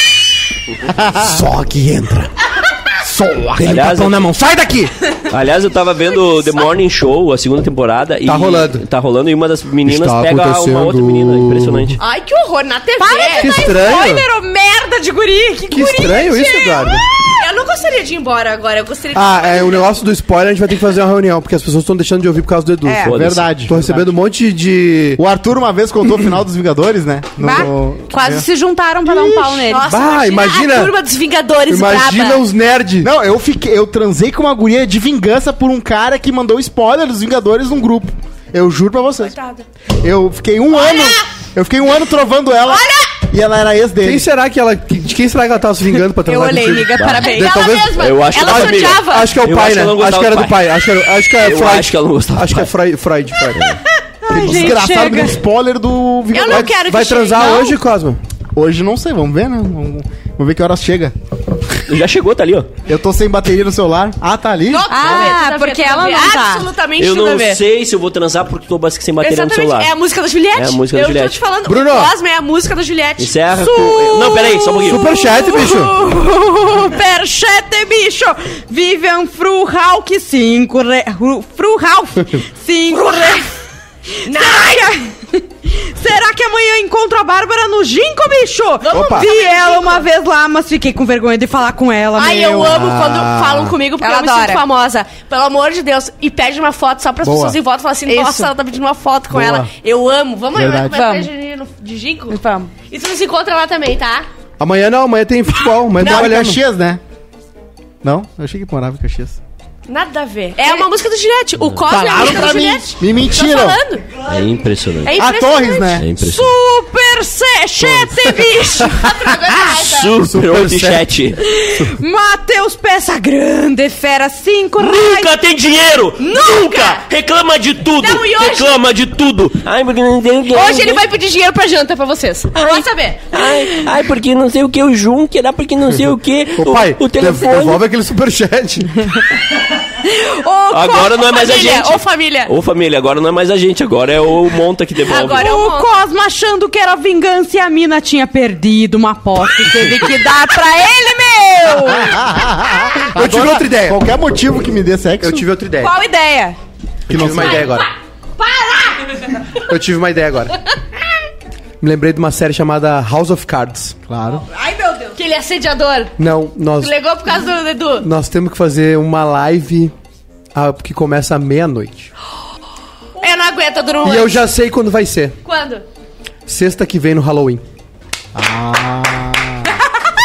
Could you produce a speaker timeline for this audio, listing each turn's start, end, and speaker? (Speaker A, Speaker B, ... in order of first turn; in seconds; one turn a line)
Speaker A: 1.1-2.3
Speaker A: 3.0-4.9
Speaker B: 3.6-4.2
Speaker B: 5.3-12.0
Speaker A: 8.2-8.8
Speaker A: 9.8-12.0
Speaker C: 12.0-14.0
Speaker D: 13.0-17.0
Speaker A: 13.4-14.3
Speaker A: 15.7-17.1
Speaker C: 17.2-19.9
Speaker A: 19.1-25.2
Speaker D: 22.9-23.1
Speaker B: 23.0-23.5
Speaker E: 23.1-24.1
Speaker E: 25.2-28.4
Speaker D: 27.4-29.9
Speaker C: 29.1-32.5
Speaker A: 29.8-31.0
Speaker A: 31.6-33.1
Speaker E: 33.0-39.4
Speaker C: 39.2-39.6
Speaker E: 40.0-44.3
Speaker C: 40.7-41.3
Speaker C: 42.6-43.1
Speaker A: 44.0-53.8
Speaker C: 46.3-49.4
Speaker D: 46.3-47.3
Speaker B: 48.0-52.7
Speaker B: 53.5-53.8
Speaker D: 54.2-55.4
Speaker E: 54.3-56.8
Speaker C: 56.3-57.8
Speaker A: 56.5-58.2
Speaker E: 58.5-61.1
Speaker B: 61.9-62.7
Speaker E: 62.9-64.9
Speaker C: 64.7-67.6
Speaker D: 64.9-66.7
Speaker B: 67.0-70.0
Speaker C: 69.2-74.5
Speaker B: 70.5-71.4
Speaker A: 71.7-72.1
Speaker B: 73.2-75.0
Speaker D: 73.6-83.5
Speaker A: 74.8-75.9
Speaker D: 84.2-92.8
Speaker C: 84.2-84.9
Speaker C: 88.8-90.0
Speaker A: 88.9-89.3
Speaker C: 92.2-104.3
Speaker A: 92.5-93.8
Speaker D: 94.0-94.7
Speaker E: 97.2-97.6
Speaker D: 98.1-98.5
Speaker A: 99.3-99.7
Speaker E: 100.5-101.1
Speaker D: 100.8-101.3
Speaker D: 102.3-102.7
Speaker A: 104.6-106.6
Speaker E: 106.0-107.0
Speaker C: 106.0-106.3
Speaker E: 108.0-109.4
Speaker C: 109.9-114.0
Speaker D: 110.6-110.9
Speaker E: 111.9-113.8
Speaker D: 112.1-112.8
Speaker B: 114.2-115.2
Speaker C: 115.0-116.0
Speaker E: 115.1-116.0
Speaker B: 116.0-116.5
Speaker D: 116.2-119.8
Speaker A: 117.8-118.1
Speaker C: 118.8-120.2
Speaker B: 119.7-121.4
Speaker A: 120.2-121.1
Speaker D: 121.5-125.4
Speaker B: 124.8-131.1
Speaker C: 126.2-127.1
Speaker C: 128.0-128.8
Speaker C: 130.5-133.8
Speaker B: 132.5-137.8
Speaker A: 136.6-139.1
Speaker C: 140.1-142.5
Speaker B: 140.7-145.5
Speaker C: 145.0-145.9
Speaker D: 145.3-152.2
Speaker E: 152.0-155.5
Speaker A: 153.1-154.0
Speaker A: 155.2-155.9
Speaker D: 155.8-156.6
Speaker A: 157.1-157.9
Speaker E: 157.1-157.8
Speaker C: 157.1-157.9
Speaker C: 158.4-159.3
Speaker A: 159.6-160.6
Speaker A: 161.8-164.0
Speaker E: 164.1-164.5
Speaker D: 164.7-165.1
Speaker C: 165.1-166.1
Speaker A: 166.2-167.0
Speaker C: 166.8-168.1
Speaker A: 168.0-169.9
Speaker A: 170.6-172.1
Speaker C: 173.2-174.4
Speaker A: 174.0-175.4
Speaker C: 175.4-175.8
Speaker A: 176.5-177.6
Speaker E: 178.3-179.7